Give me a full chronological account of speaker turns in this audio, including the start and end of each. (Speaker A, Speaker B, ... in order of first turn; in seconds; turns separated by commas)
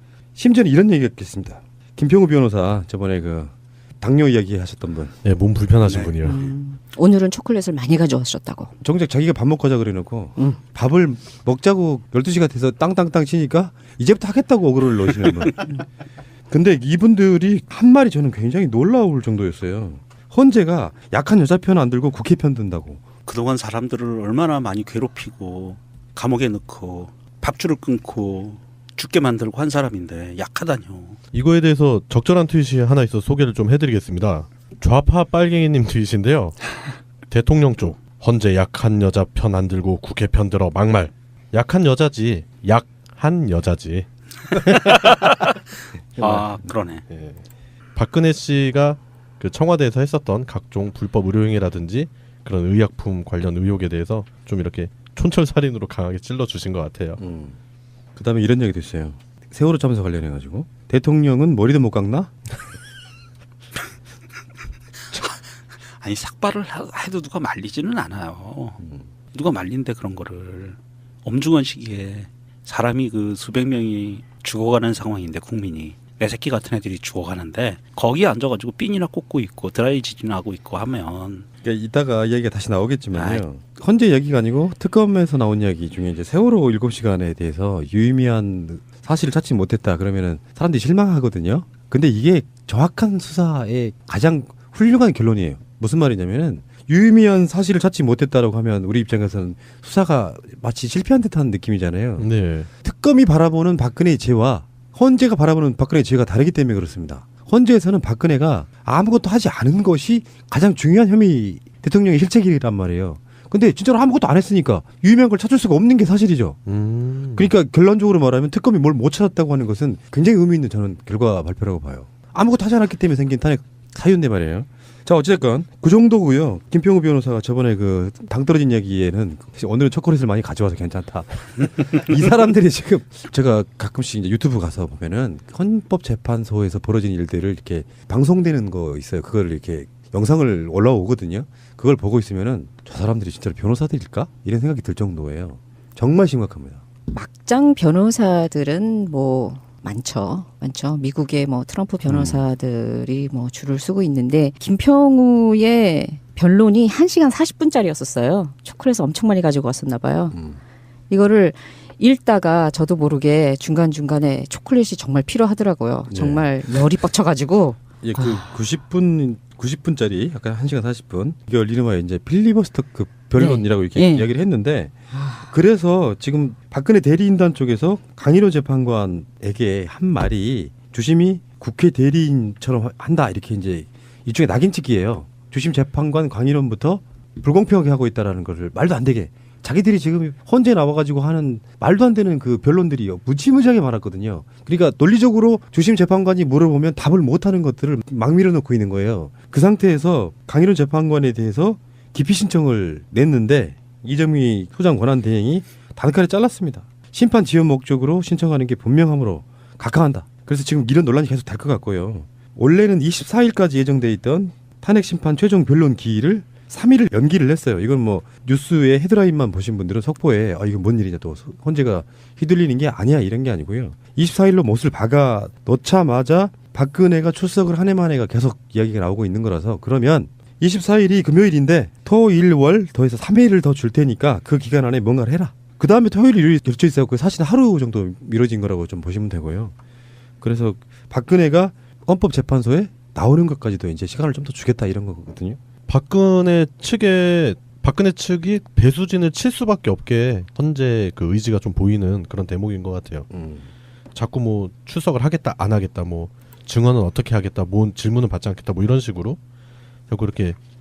Speaker A: 0.3-5.2, Speaker B: 5.2-6.4, Speaker C: 5.9-6.5, Speaker D: 6.2-8.7, Speaker A: 8.8-15.6, Speaker A: 16.5-23.0, Speaker C: 23.2-31.2, Speaker B: 31.3-36.8, Speaker B: 37.3-44.9, Speaker C: 44.6-45.6, Speaker B: 46.2-46.5, Speaker C: 46.2-47.0, Speaker B: 47.1-47.4, Speaker B: 47.9-57.2, Speaker A: 57.2-57.6, Speaker A: 58.1-62.3, Speaker C: 65.1-65.4, Speaker C: 66.0-68.8, Speaker C: 69.3-81.5, Speaker A: 81.6-102.2, Speaker C: 83.1-83.4, Speaker B: 102.2-102.7, Speaker A: 102.8-116.6, Speaker B: 116.7-117.5, Speaker A: 117.3-146.8, Speaker D: 147.1-160.3, Speaker A: 152.1-152.4, Speaker A: 160.3-160.6, Speaker D: 161.1-168.4, Speaker A: 166.1-166.6, Speaker A: 168.0-239.7, Speaker D: 173.4-174.3, Speaker A: 240.4-245.6, Speaker B: 245.9-253.2, Speaker A: 253.3-253.7, Speaker B: 254.1-259.4, Speaker B: 260.1-260.6